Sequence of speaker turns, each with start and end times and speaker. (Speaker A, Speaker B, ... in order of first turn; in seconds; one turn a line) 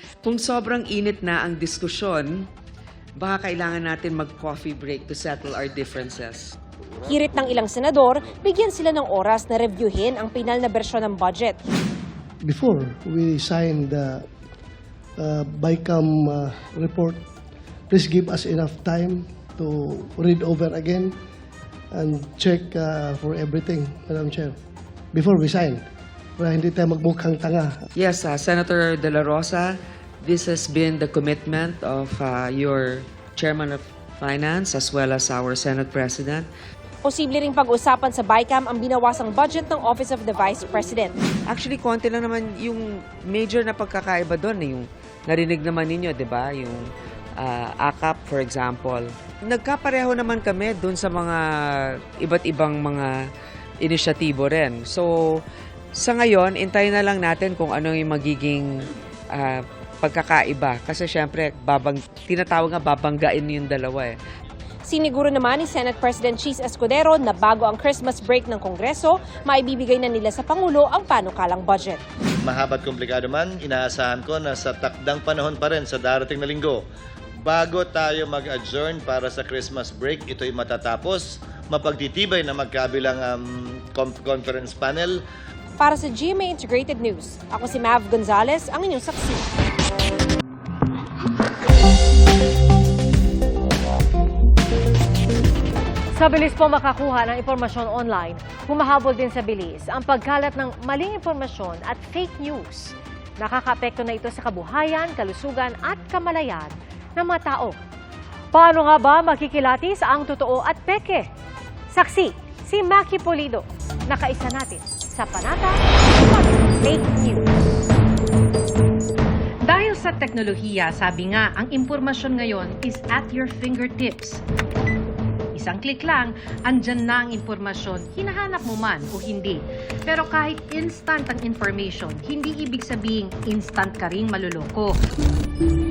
Speaker A: 0.2-2.5
Speaker A: 3.2-6.5
Speaker B: 7.0-11.6
Speaker C: 12.4-14.3
Speaker C: 15.2-17.2
Speaker C: 17.9-21.2
Speaker C: 21.9-24.6
Speaker C: 25.1-25.9
Speaker C: 26.4-27.8
Speaker A: 28.0-36.5
Speaker B: 37.0-41.1
Speaker A: 41.5-53.1
Speaker A: 53.8-55.1
Speaker A: 56.0-64.2
Speaker B: 64.9-72.0
Speaker D: 72.4-76.8
Speaker D: 77.4-85.2
Speaker B: 85.8-89.5
Speaker E: 96.2-107.8
Speaker E: 108.5-111.3
Speaker E: 111.9-117.8
Speaker F: 119.7-124.4
Speaker F: 125.5-135.0